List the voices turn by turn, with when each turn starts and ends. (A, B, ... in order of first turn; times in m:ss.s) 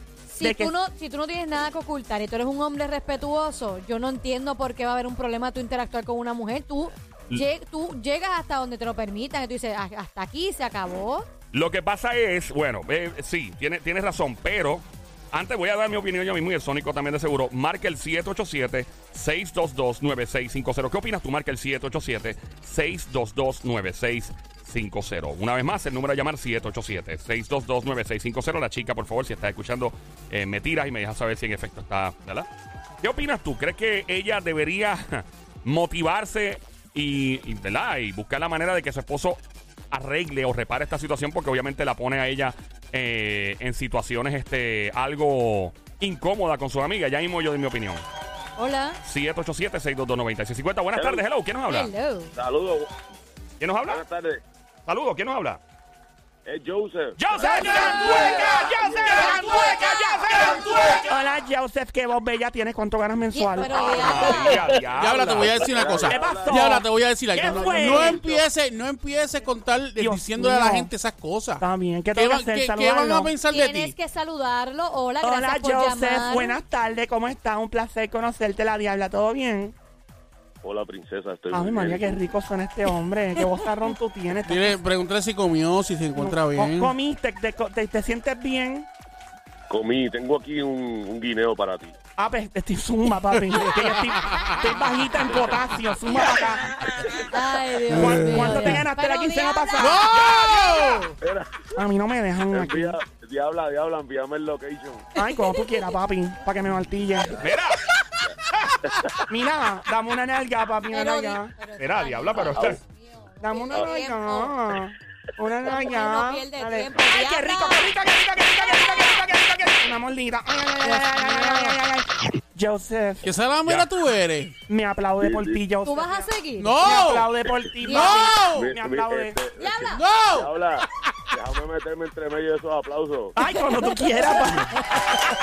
0:00.3-0:11.3 A
0:00.4-0:00.7 B
0:11.5-0:32.5 C
0:33.0-0:39.4 C
0:39.9-0:48.0 C
0:48.6-0:49.0 A
0:49.0-0:51.9 C
0:51.0-0:51.2 D
0:51.7-0:52.3 A
0:52.3-0:52.9 D
0:53.6-0:54.0 C
0:53.9-0:54.4 D
0:54.8-0:55.6 C
0:56.4-1:01.1 D
0:57.2-1:01.1 C
0:57.4-1:04.3 B
1:03.3-1:04.6 A
1:03.6-1:05.7 C
1:04.8-1:14.0 E
1:05.1-1:06.8 D
1:06.1-1:08.2 B
1:07.4-1:08.4 D
1:10.0-1:10.9 B
1:11.6-1:13.3 B
1:13.5-1:16.6 A
1:15.2-1:19.7 B
1:20.6-1:22.2 D
1:21.5-1:24.8 B
1:24.4-1:26.9 E
1:26.2-1:28.9 B
1:29.7-1:32.0 D
1:32.2-1:36.8 B
1:33.3-1:34.9 E
1:37.3-1:40.0 A
1:37.9-1:38.8 E
1:37.9-1:40.7 B
1:39.8-1:41.2 E
1:41.2-1:41.8 D
1:41.8-1:43.0 B
1:42.5-1:45.1 D
1:45.2-1:47.4 B
1:45.2-1:45.7 A
1:47.4-1:47.8 C
1:49.3-1:51.5 B
1:50.9-1:54.6 A
1:51.8-1:52.8 C
1:53.4-2:03.3 B
1:55.7-1:58.0 A
1:58.6-1:59.2 A
2:00.8-2:01.8 A
2:03.2-2:04.6 E
2:04.7-2:09.4 B
2:05.2-2:05.6 D
2:05.8-2:07.1 A
2:06.6-2:07.3 E
2:07.8-2:08.3 A
2:07.8-2:08.7 E
2:08.5-2:13.4 D
2:09.6-2:10.0 A
2:09.9-2:10.5 E
2:13.4-2:14.9 B
2:13.4-2:14.9 A